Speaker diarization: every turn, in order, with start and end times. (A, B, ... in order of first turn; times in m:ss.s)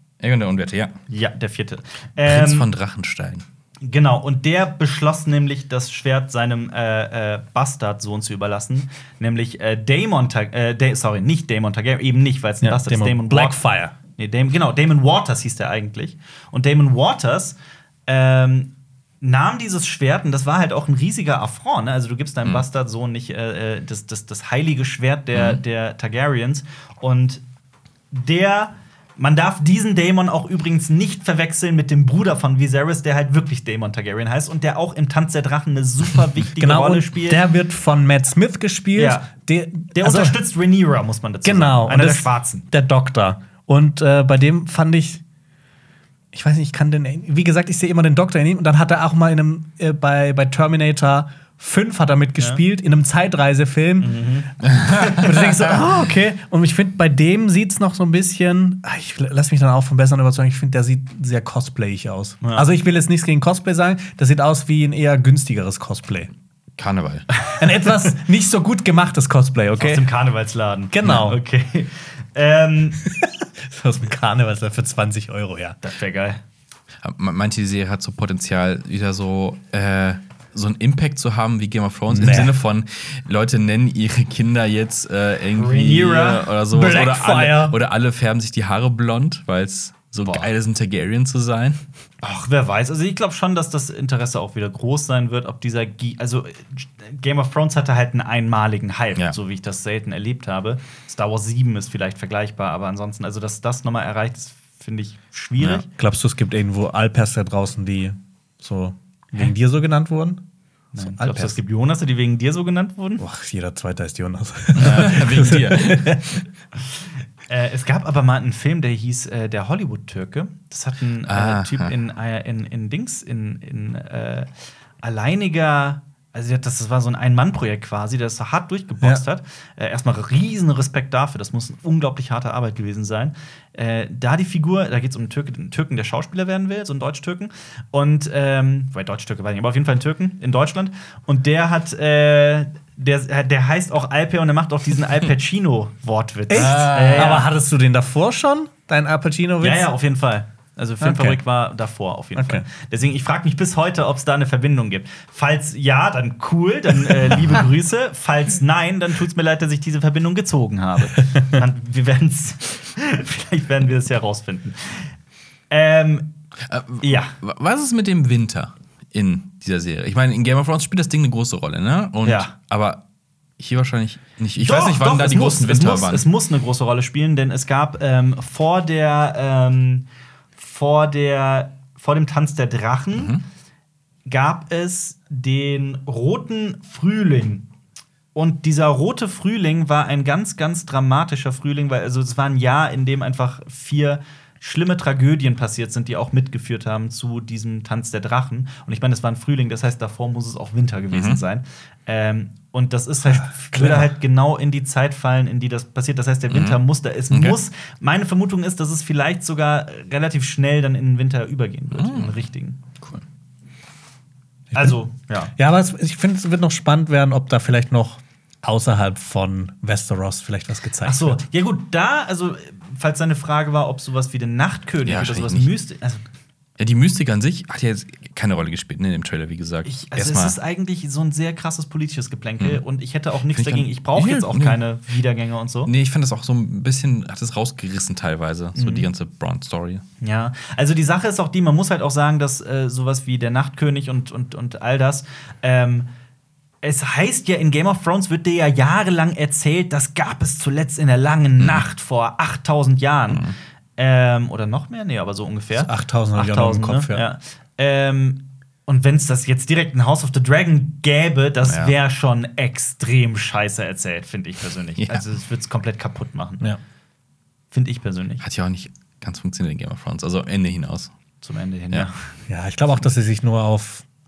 0:00.2-0:01.0 A
0:01.1-0:02.7 B
0:02.2-0:03.4 A
0:03.8-0:13.6 B
0:12.6-0:13.9 C
0:14.2-0:17.6 B
0:18.1-0:18.7 B
0:19.2-0:27.4 B
0:25.3-0:25.6 A
0:28.1-0:37.5 B
0:36.6-0:40.4 C
0:39.0-0:39.3 B
0:40.0-0:42.7 B
0:41.4-0:45.2 C
0:46.3-0:54.2 C
0:54.0-0:54.5 B
0:54.7-0:55.3 A
0:54.8-1:06.3 C
1:06.8-1:07.3 A
1:07.6-1:10.0 C
1:09.8-1:13.0 B
1:10.9-1:11.4 C
1:13.0-1:15.8 C
1:15.8-1:16.4 B
1:17.0-1:31.8 A
1:22.1-1:22.6 C
1:25.5-1:26.6 B
1:26.7-1:27.8 C
1:30.2-1:30.5 B
1:32.2-1:45.9 B
1:45.6-1:45.8 A
1:45.9-1:50.4 C
1:50.9-1:53.2 B
1:51.0-1:51.6 C
1:53.2-1:56.4 C
1:54.8-1:56.2 A
1:57.5-2:04.5 B
2:01.3-2:01.9 A
2:05.0-2:27.5 B
2:26.5-2:29.9 C
2:26.5-2:27.4 A
2:29.6-2:45.1 B
2:31.0-2:31.4 C
2:32.4-2:32.6 C
2:45.7-2:46.3 B
2:46.6-2:53.0 A
2:47.0-2:47.3 B
2:52.2-2:52.5 B
2:53.6-2:56.3 A
2:54.6-3:00.0 B
3:00.6-3:03.4 B
3:03.1-3:03.4 A
3:04.3-3:07.7 B
3:08.4-3:33.0 B
3:21.1-3:21.4 A
3:23.2-3:24.1 C
3:26.5-3:27.6 A
3:31.9-3:32.4 A
3:34.7-3:35.5 B
3:34.7-3:35.0 C
3:35.6-3:41.4 C
3:41.0-3:46.2 B
3:45.0-3:45.7 A
3:46.8-3:50.6 A
3:49.9-3:55.9 B
3:53.5-3:54.8 A
3:55.9-4:00.0 A
3:58.8-3:59.1 B
4:00.2-4:06.1 B
4:06.8-4:26.7 B
4:11.6-4:11.9 A
4:13.3-4:13.6 A
4:15.7-4:17.2 C
4:21.6-4:22.0 A
4:25.0-4:25.2 A
4:27.7-4:28.4 B
4:28.4-4:31.1 A
4:31.4-4:32.3 B
4:32.5-4:34.0 C